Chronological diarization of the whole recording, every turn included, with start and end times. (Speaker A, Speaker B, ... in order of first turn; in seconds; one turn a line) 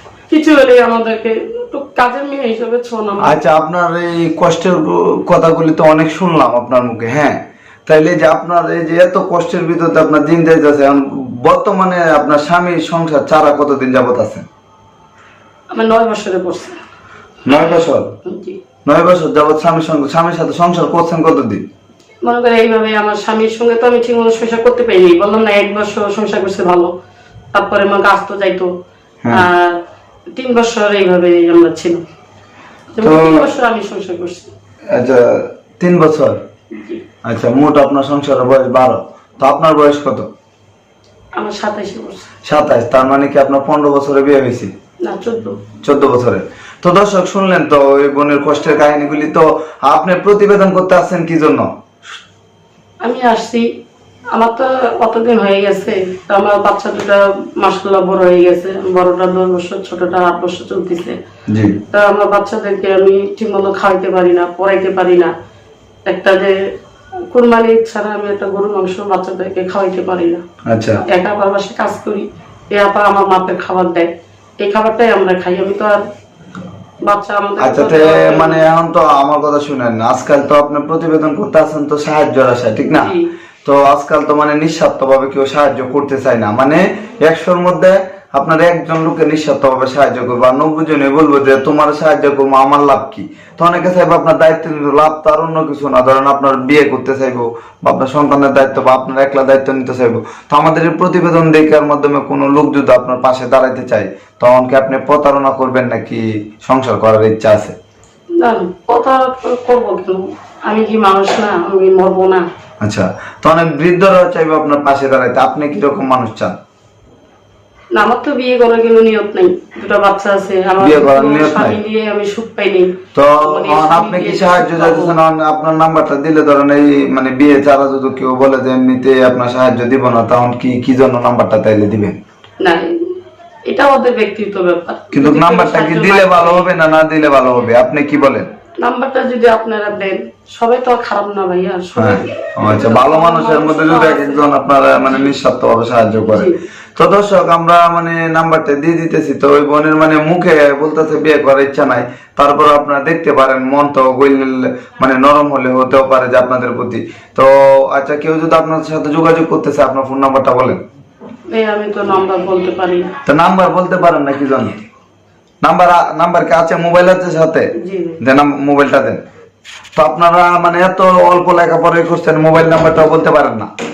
Speaker A: 0.3-3.4
Speaker B: 3.2-14.4
Speaker A: 15.7-16.8
Speaker B: 17.4-18.1
Speaker A: 18.2-18.6
Speaker B: 18.8-21.6
Speaker A: 22.2-26.9
Speaker A: 27.5-28.7
Speaker A: 29.3-29.8
Speaker A: 30.3-32.0
Speaker A: 32.9-34.5
Speaker B: 33.0-33.5
Speaker B: 34.9-36.4
Speaker A: 36.7-37.0
Speaker B: 37.2-40.3
Speaker A: 41.4-42.3
Speaker B: 42.4-44.7
Speaker A: 45.0-45.6
Speaker B: 45.8-51.7
Speaker A: 53.0-53.6
Speaker A: 54.3-61.1
Speaker B: 61.5-61.8
Speaker A: 61.9-65.3
Speaker A: 66.1-66.5
Speaker A: 67.3-70.4
Speaker B: 70.7-71.0
Speaker A: 71.0-74.1
Speaker A: 74.6-76.0
Speaker A: 77.0-78.7
Speaker B: 77.6-83.1
Speaker A: 82.9-83.3
Speaker B: 83.6-107.8
Speaker A: 108.4-112.5
Speaker B: 112.8-116.5
Speaker A: 117.9-125.2
Speaker B: 120.8-121.8
Speaker B: 123.1-132.2
Speaker A: 132.6-132.9
Speaker A: 133.7-136.7
Speaker B: 135.1-138.5
Speaker A: 138.8-144.5
Speaker B: 142.0-160.8
Speaker A: 145.1-145.3
Speaker A: 146.3-146.6
Speaker A: 161.5-163.1
Speaker B: 163.2-164.8
Speaker B: 165.6-169.2
Speaker A: 167.8-168.2
Speaker B: 169.9-173.7